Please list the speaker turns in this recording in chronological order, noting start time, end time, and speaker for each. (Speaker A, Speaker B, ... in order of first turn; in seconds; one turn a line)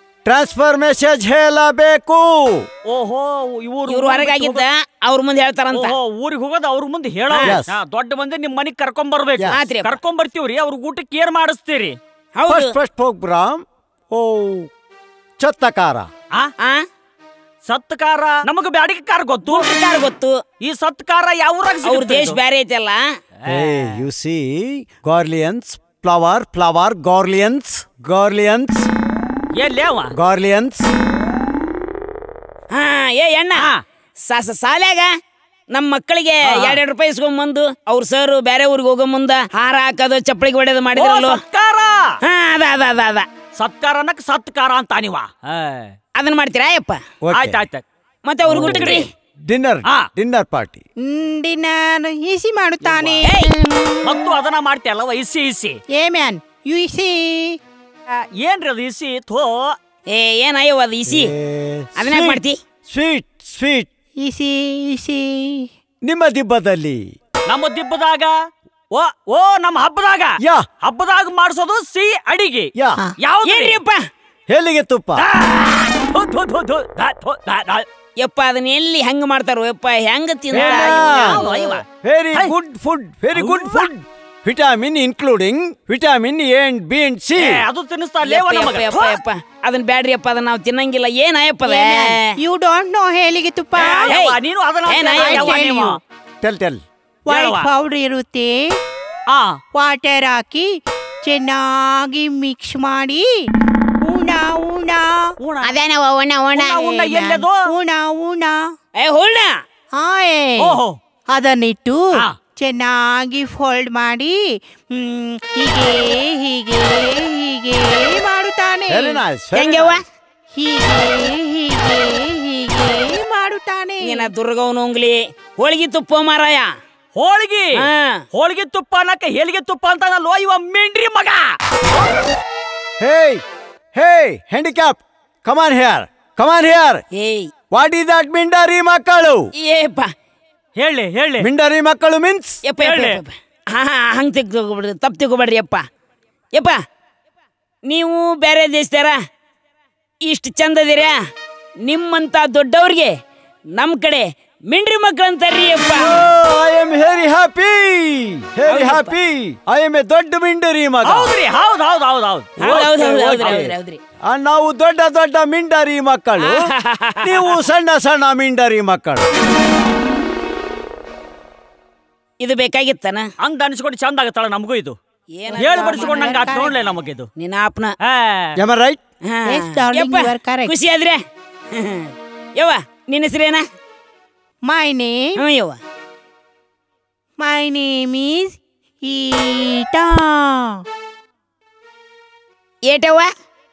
Speaker A: 0.2-2.7
Speaker B: 2.9-4.6
Speaker C: 3.9-5.9
Speaker B: 5.7-12.0
Speaker C: 7.3-7.6
Speaker A: 7.4-7.7
Speaker C: 9.5-10.0
Speaker C: 12.3-12.7
Speaker A: 12.5-14.7
Speaker A: 15.4-16.1
Speaker B: 17.7-20.0
Speaker C: 19.5-20.4
Speaker B: 20.6-22.4
Speaker C: 21.8-23.0
Speaker B: 23.4-24.0
Speaker A: 23.5-28.9
Speaker B: 29.6-30.1
Speaker A: 30.1-30.9
Speaker C: 32.7-33.7
Speaker C: 34.3-35.1
Speaker C: 35.7-41.4
Speaker B: 36.4-36.8
Speaker B: 40.9-42.1
Speaker C: 42.2-43.2
Speaker B: 43.6-45.9
Speaker C: 46.2-47.0
Speaker A: 47.2-47.6
Speaker B: 47.3-47.8
Speaker C: 48.2-49.1
Speaker B: 48.5-49.1
Speaker A: 48.5-48.9
Speaker A: 49.5-50.8
Speaker D: 51.0-54.3
Speaker A: 52.8-53.2
Speaker C: 53.2-53.5
Speaker B: 54.0-55.8
Speaker D: 55.9-57.6
Speaker B: 58.1-59.7
Speaker C: 60.1-61.3
Speaker A: 61.1-63.9
Speaker C: 62.0-62.6
Speaker D: 64.2-65.7
Speaker A: 66.0-67.0
Speaker B: 67.5-68.3
Speaker B: 68.9-73.8
Speaker A: 70.4-70.7
Speaker A: 72.8-73.0
Speaker C: 73.5-74.0
Speaker A: 74.5-75.2
Speaker B: 75.2-77.8
Speaker C: 78.2-81.7
Speaker A: 80.5-81.4
Speaker B: 80.5-82.5
Speaker A: 82.0-87.6
Speaker B: 83.3-83.9
Speaker B: 87.4-89.2
Speaker C: 88.2-92.4
Speaker D: 91.6-94.2
Speaker B: 93.8-96.0
Speaker C: 94.1-95.5
Speaker D: 95.2-96.0
Speaker A: 96.4-96.8
Speaker D: 97.3-98.6
Speaker B: 97.3-97.7
Speaker B: 99.3-99.6
Speaker D: 99.7-100.7
Speaker D: 101.2-103.3
Speaker D: 104.0-105.3
Speaker B: 105.4-105.7
Speaker C: 105.6-107.1
Speaker B: 106.5-107.6
Speaker D: 107.2-108.6
Speaker C: 109.0-109.5
Speaker D: 110.0-110.8
Speaker B: 110.6-111.0
Speaker D: 111.3-114.4
Speaker D: 114.9-119.2
Speaker A: 118.9-120.0
Speaker C: 119.5-120.0
Speaker D: 120.6-124.3
Speaker C: 124.0-126.7
Speaker B: 127.2-131.5
Speaker C: 127.8-128.2
Speaker A: 133.0-133.4
Speaker A: 133.9-137.0
Speaker C: 137.2-137.5
Speaker A: 137.7-139.5
Speaker C: 139.6-140.1
Speaker B: 140.8-141.4
Speaker A: 141.4-142.6
Speaker C: 142.6-145.8
Speaker B: 142.8-143.2
Speaker C: 147.9-149.2
Speaker C: 150.3-151.2
Speaker C: 151.8-153.1
Speaker C: 153.7-156.2
Speaker A: 155.9-161.3
Speaker C: 158.7-159.1
Speaker B: 161.1-163.7
Speaker A: 162.6-163.7
Speaker C: 162.6-164.0
Speaker A: 164.2-169.3
Speaker C: 166.5-166.9
Speaker C: 172.4-173.3
Speaker B: 173.4-174.9
Speaker C: 175.4-176.4
Speaker D: 175.5-176.8
Speaker B: 175.6-177.3
Speaker C: 177.4-177.9
Speaker B: 178.0-178.6
Speaker A: 178.6-179.0
Speaker C: 179.3-183.6
Speaker D: 179.4-180.7
Speaker D: 184.7-185.4
Speaker C: 185.4-185.8
Speaker D: 187.4-190.8
Speaker C: 192.9-193.3